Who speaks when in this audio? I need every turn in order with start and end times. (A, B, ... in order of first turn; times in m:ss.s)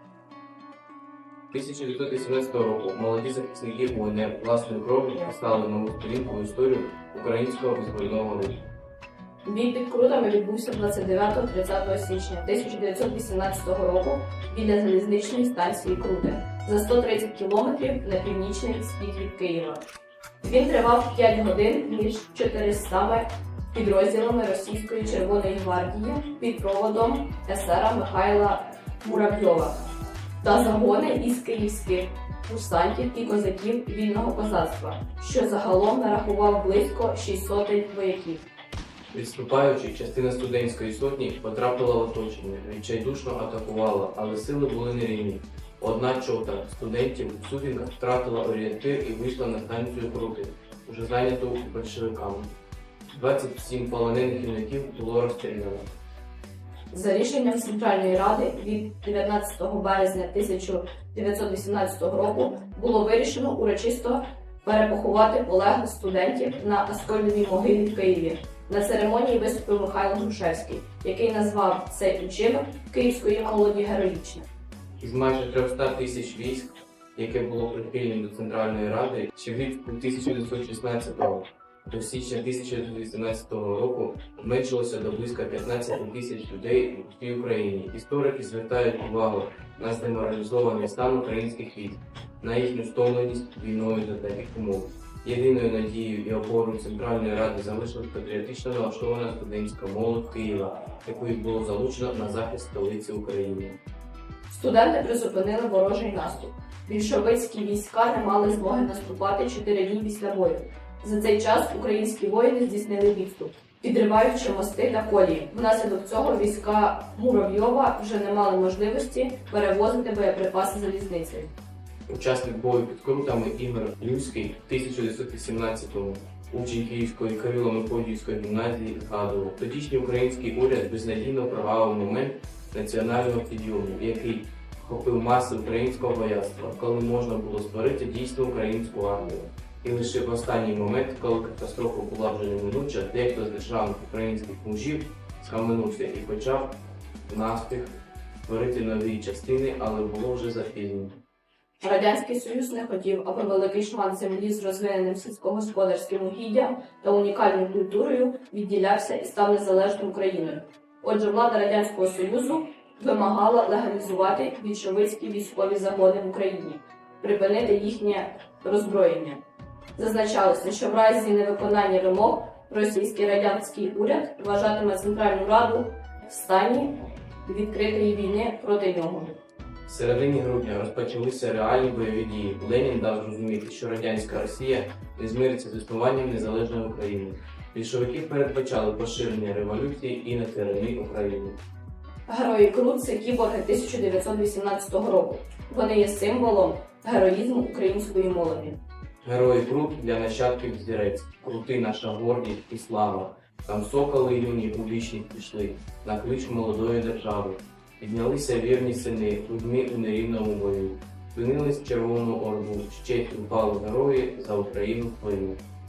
0:01.5-0:08.6 A
0:09.4-0:19.9 B
0:20.4-0:29.8 B
0:30.4-0:38.4 B
0:39.1-0:52.5 A
0:53.1-0:55.9 A
0:56.9-1:14.5 B
1:15.0-1:43.8 A
1:44.5-2:01.5 B
2:02.1-2:26.8 A
2:27.3-2:27.9 A
2:28.4-2:31.2 A
2:31.8-2:49.4 B
2:50.0-2:59.4 B
2:59.9-3:11.6 A
3:12.3-3:18.8 B
3:19.2-3:35.6 A